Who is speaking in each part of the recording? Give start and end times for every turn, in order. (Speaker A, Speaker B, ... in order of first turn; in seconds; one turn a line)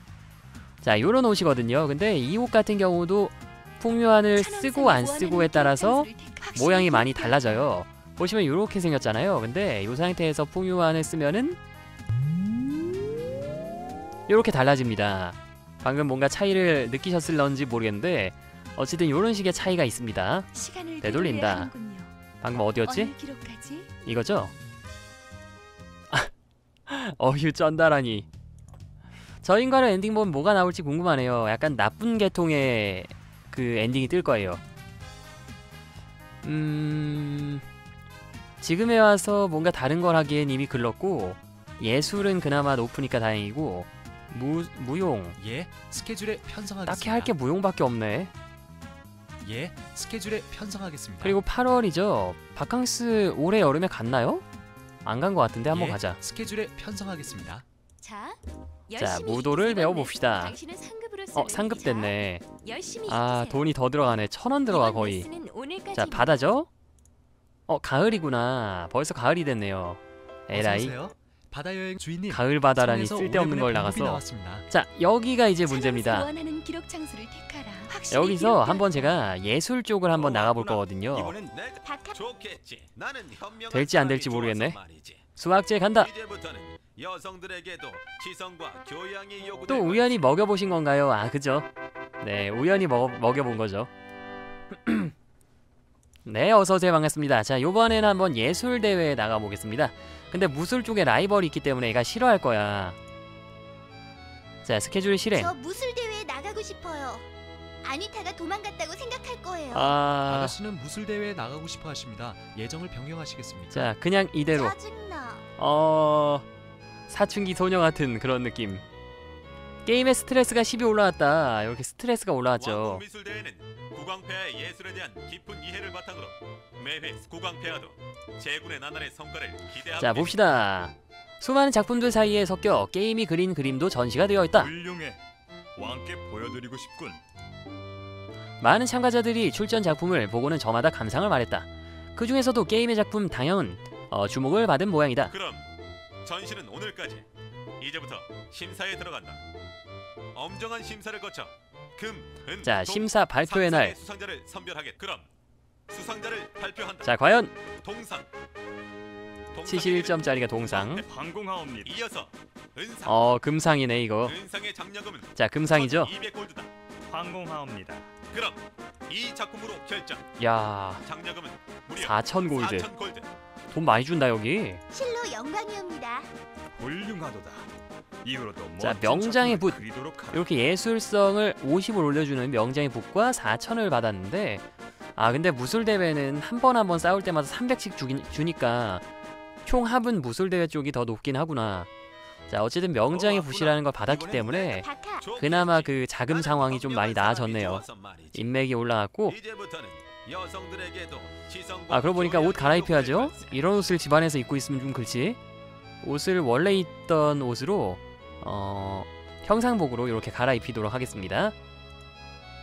Speaker A: 0.8-11.6
Speaker B: 4.4-7.7
Speaker A: 14.3-20.5
Speaker B: 20.5-22.1
Speaker A: 21.0-21.7
Speaker A: 22.4-23.1
Speaker B: 22.8-23.9
Speaker A: 24.1-24.5
Speaker A: 26.9-28.3
Speaker A: 29.4-34.6
Speaker A: 36.4-37.6
Speaker A: 38.6-45.4
Speaker C: 45.4-47.3
Speaker A: 46.9-48.3
Speaker C: 49.4-51.4
Speaker A: 51.2-54.4
Speaker A: 55.0-56.2
Speaker C: 55.7-57.6
Speaker B: 58.0-63.7
Speaker A: 59.0-60.6
Speaker A: 61.4-62.4
Speaker A: 63.1-65.3
Speaker B: 64.7-66.3
Speaker A: 65.9-66.7
Speaker A: 67.7-71.0
Speaker C: 70.5-74.7
Speaker A: 72.3-76.3
Speaker B: 75.7-79.2
Speaker A: 78.1-81.3
Speaker D: 80.1-81.5
Speaker E: 81.5-85.2
Speaker F: 81.8-82.2
Speaker A: 83.7-84.8
Speaker A: 85.4-86.1
Speaker E: 86.0-90.3
Speaker A: 89.7-91.7
Speaker A: 92.2-93.9
Speaker A: 94.7-95.1
Speaker A: 96.3-103.0
Speaker A: 104.7-105.5
Speaker F: 105.3-107.3
Speaker F: 107.8-110.0
Speaker A: 109.7-110.6
Speaker C: 110.3-113.9
Speaker A: 113.7-114.8
Speaker F: 114.5-115.5
Speaker A: 115.6-116.5
Speaker A: 117.1-118.8
Speaker A: 119.9-123.0
Speaker E: 122.6-130.4
Speaker A: 130.0-134.7
Speaker D: 134.5-135.2
Speaker D: 135.8-137.2
Speaker A: 138.6-145.3
Speaker E: 145.3-145.7
Speaker E: 146.2-147.3
Speaker E: 147.8-149.4
Speaker E: 150.3-155.3
Speaker A: 152.6-154.0
Speaker E: 155.9-157.1
Speaker A: 157.0-157.5
Speaker E: 157.8-158.3
Speaker E: 159.5-161.1
Speaker A: 159.7-161.0
Speaker D: 161.1-162.0
Speaker E: 161.8-163.4
Speaker A: 163.1-164.4
Speaker E: 164.2-166.7
Speaker A: 165.3-166.1
Speaker D: 167.1-168.1
Speaker E: 168.3-170.2
Speaker A: 170.4-171.0
Speaker E: 171.1-173.3
Speaker A: 172.0-172.9
Speaker A: 173.7-174.8
Speaker F: 174.9-176.3
Speaker D: 176.8-177.7
Speaker D: 178.2-180.5
Speaker A: 178.8-179.8
Speaker A: 180.3-184.6
Speaker A: 185.2-189.0
Speaker A: 189.6-191.9
Speaker A: 192.5-199.4
Speaker D: 193.1-194.8
Speaker E: 194.8-198.5
Speaker F: 194.8-195.3
Speaker E: 199.2-203.6
Speaker A: 201.9-205.4
Speaker A: 206.0-211.6